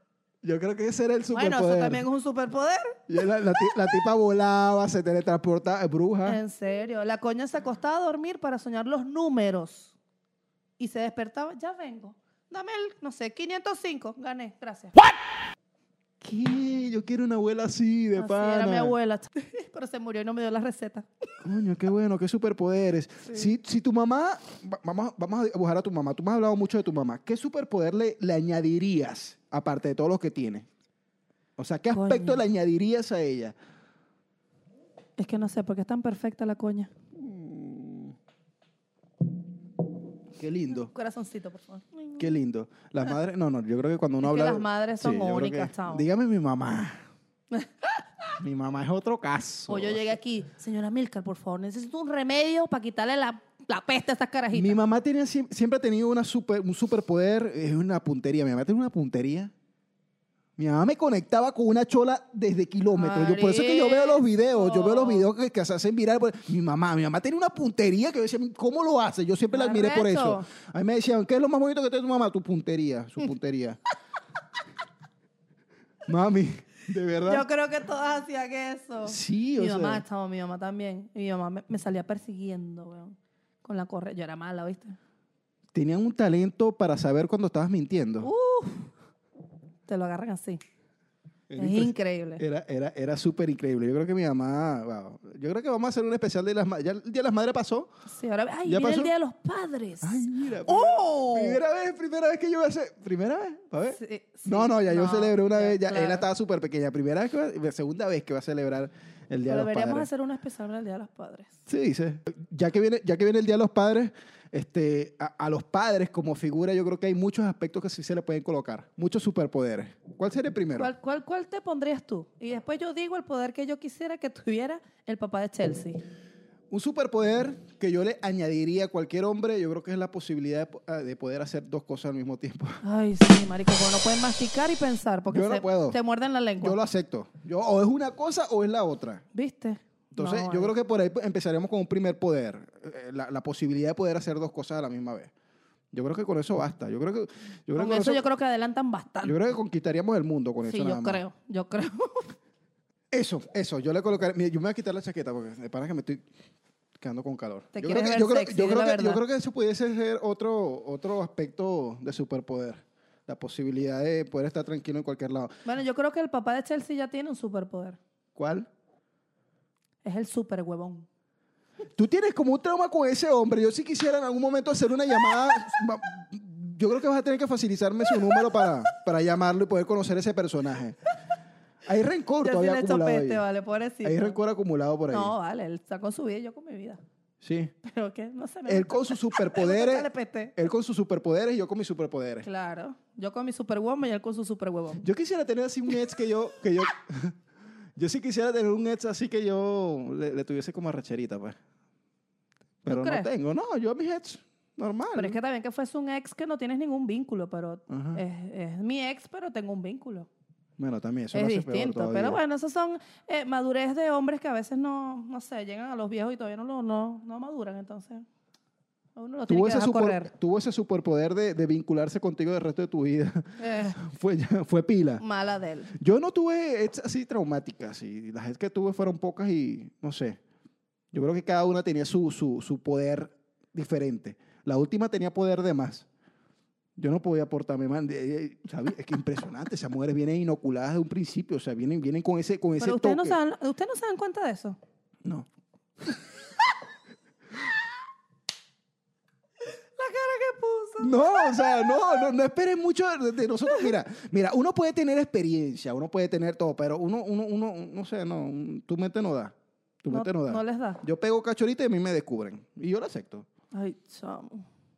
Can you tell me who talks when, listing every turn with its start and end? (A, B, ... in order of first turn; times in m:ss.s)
0:00.4-0:02.0 A
0:01.3-0:03.0 B
0:03.1-0:06.4 A
0:06.2-0:09.9 B
0:10.8-0:15.0 B
0:16.2-0:18.9 A
0:18.2-0:21.1 B
0:21.4-0:30.7 A
0:31.6-0:33.5 A
0:31.9-0:32.4 B
0:35.2-0:36.9 B
0:37.2-0:38.1 A
0:40.4-0:40.9 A
0:40.7-0:42.3 B
0:42.2-0:47.0 A
0:44.2-0:46.0 B
0:47.5-0:48.0 B
0:48.4-0:50.1 A
0:49.7-0:54.8 B
0:54.5-0:59.5 A
1:00.6-1:13.8 A
1:02.9-1:05.3 B
1:09.5-1:10.5 B
1:16.0-1:17.4 A
1:17.2-1:25.0 B
1:19.0-1:20.0 A
1:25.7-1:28.3 A
1:28.2-1:28.9 B
1:29.9-1:30.6 B
1:31.5-1:37.9 A
1:31.6-1:32.4 B
1:38.1-1:41.6 B
1:38.6-1:39.1 A
1:40.0-1:50.1 A
1:43.9-1:46.2 B
1:49.4-1:51.6 B
1:51.7-2:00.9 A
2:00.8-2:06.0 B
2:06.7-2:12.8 A
2:12.8-2:16.8 B
2:15.3-2:16.0 A
2:16.6-2:19.2 A
2:19.3-2:20.7 B
2:20.1-2:25.3 A
2:25.9-2:28.2 A
2:27.7-2:29.4 B
2:29.2-2:31.2 A
2:30.6-2:32.3 B
2:33.1-2:36.2 A
2:37.0-2:45.5 A
2:37.7-2:39.2 B
2:45.6-2:48.0 B
2:48.4-2:48.7 A
2:50.0-2:51.1 B
2:51.9-3:01.0 A
3:01.8-3:03.4 A
3:02.4-3:04.4 B
3:04.0-3:05.3 A
3:05.1-3:07.0 B
3:07.4-3:07.7 A
3:07.8-3:10.5 B
3:08.6-3:12.4 A
3:12.4-3:15.0 B
3:15.0-3:17.4 A
3:18.0-3:21.6 A
3:22.8-3:25.4 A
3:22.9-3:23.3 B
3:25.1-3:30.3 B
3:27.9-3:28.2 A
3:30.8-3:32.4 A
3:31.3-3:38.2 B
3:39.2-3:40.3 B
3:39.5-3:45.2 A
3:43.6-3:44.0 B
3:45.2-3:45.9 B
3:46.0-3:50.4 A
3:51.1-3:56.0 A
3:57.0-4:03.4 A
4:02.8-4:04.8 B
4:10.0-4:12.1 B
4:11.0-4:23.4 A
4:20.1-4:21.0 B
4:23.7-4:24.6 B